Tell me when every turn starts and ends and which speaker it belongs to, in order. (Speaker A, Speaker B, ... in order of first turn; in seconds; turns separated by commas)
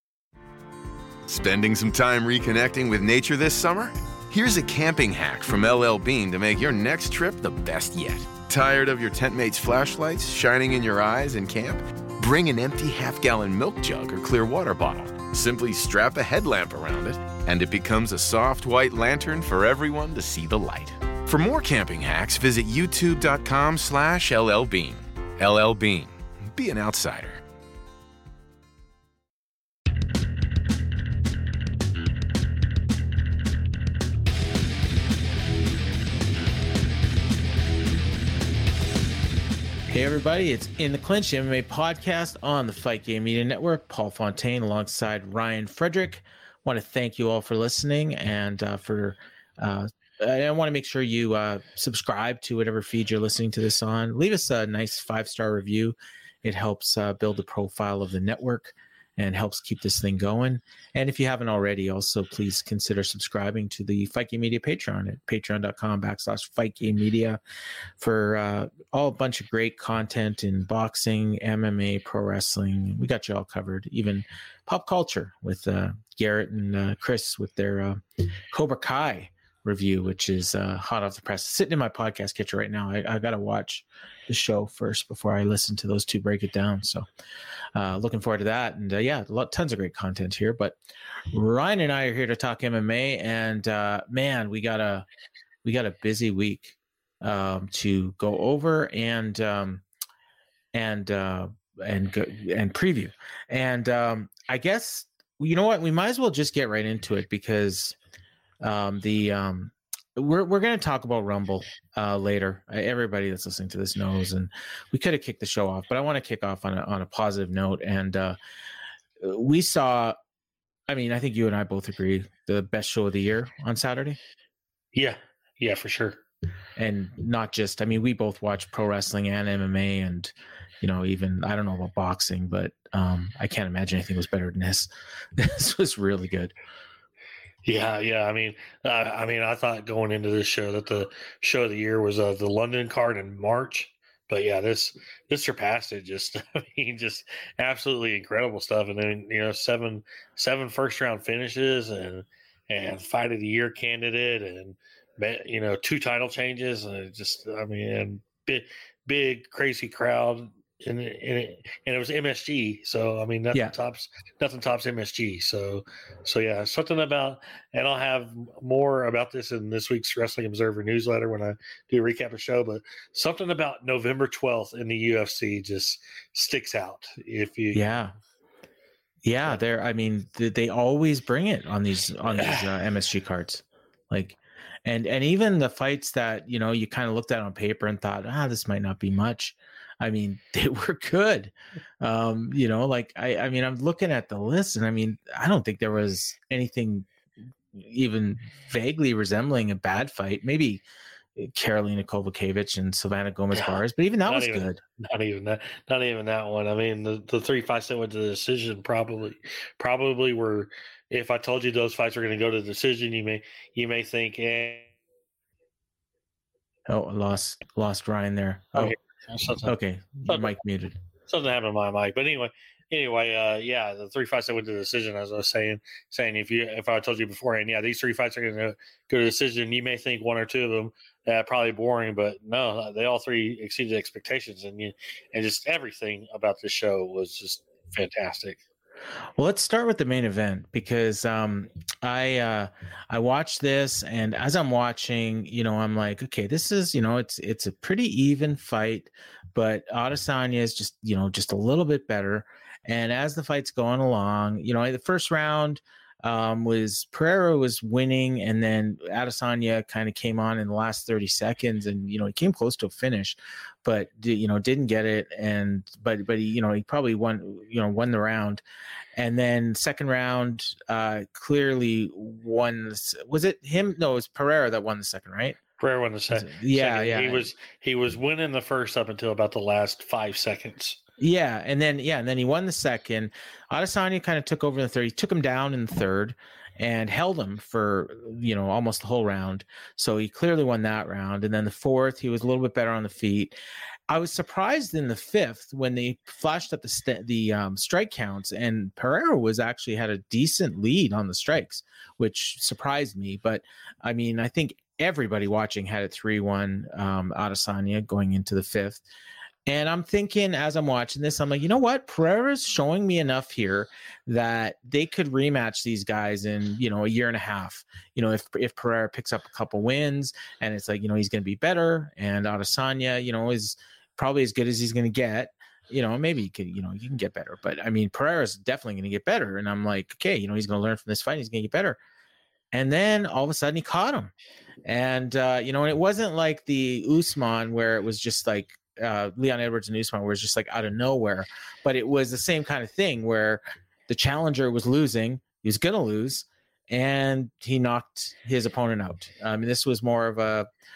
Speaker A: 1.3-27.4, Speaker B: 39.9-67.4, Speaker B: 68.0-87.0, Speaker B: 87.7-90.8, Speaker B: 91.3-95.0, Speaker B: 95.6-99.8, Speaker B: 100.7-108.0, Speaker B: 108.6-118.4, Speaker B: 119.2-120.2, Speaker B: 120.9-124.2, Speaker C: 124.9-126.2, Speaker B: 126.8-136.5, Speaker C: 137.6-177.8, Speaker B: 177.7-178.1, Speaker B: 179.2-197.1, Speaker C: 182.3-182.7, Speaker B: 197.7-200.8, Speaker B: 201.3-204.8, Speaker C: 203.5-214.9, Speaker B: 216.9-218.9, Speaker C: 218.7-219.7, Speaker B: 219.6-221.0, Speaker C: 220.2-220.6, Speaker C: 221.3-238.6, Speaker B: 239.4-268.6, Speaker B: 269.1-275.6, Speaker C: 275.8-281.0, Speaker B: 276.3-277.5, Speaker B: 281.2-293.6, Speaker B: 294.1-309.0, Speaker B: 309.6-332.0, Speaker B: 332.7-334.3, Speaker B: 334.8-350.7